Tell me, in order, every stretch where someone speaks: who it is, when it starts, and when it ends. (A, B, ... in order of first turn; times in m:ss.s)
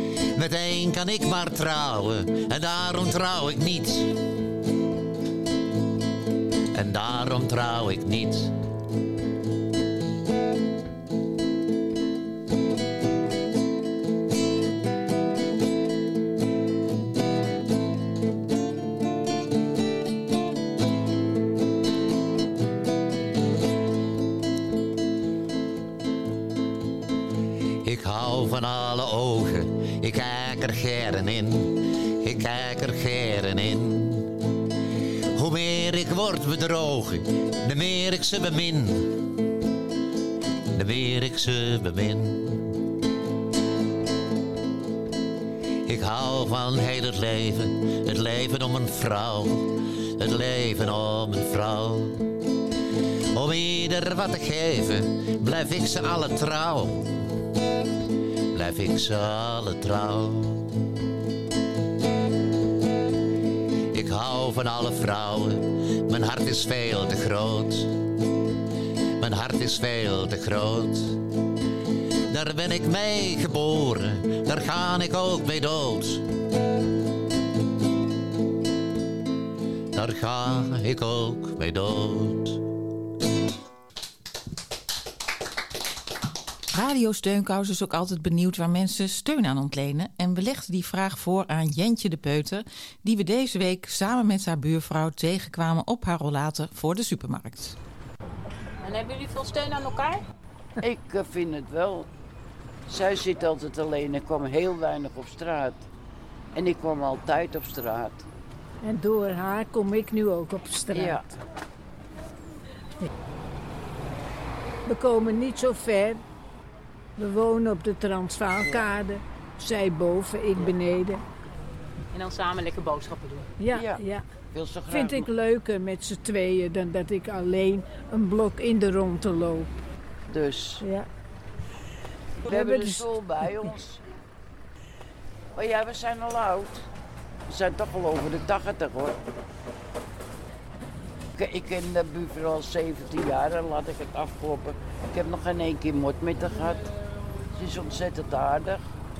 0:00.3-0:04.2 A
0:06.7-0:08.5 A
0:27.8-0:34.4 A
0:35.4-0:39.2 A
0:40.7-0:42.7 A
0:45.8-0:52.2 A
0:53.3-0:57.2 A
0:58.5-1:00.7 A
1:03.9-1:07.9 A
1:09.2-1:11.2 A
1:12.3-1:16.2 A
1:19.9-1:22.6 A
1:26.7-1:37.8 B
1:38.8-1:40.2 C
1:40.8-1:42.1 D
1:42.9-1:45.8 D
1:46.5-1:48.2 D
1:48.8-1:51.2 E
1:50.9-1:51.3 D
1:54.8-1:56.2 E
1:57.2-2:01.2 E
2:02.1-2:03.5 C
2:03.6-2:04.2 E
2:03.7-2:05.3 D
2:04.8-2:09.7 E
2:10.3-2:10.8 D
2:10.8-2:11.1 E
2:12.4-2:14.0 D
2:12.5-2:13.4 E
2:15.5-2:16.8 D
2:17.5-2:19.2 D
2:21.4-2:26.8 D
2:27.5-2:28.8 D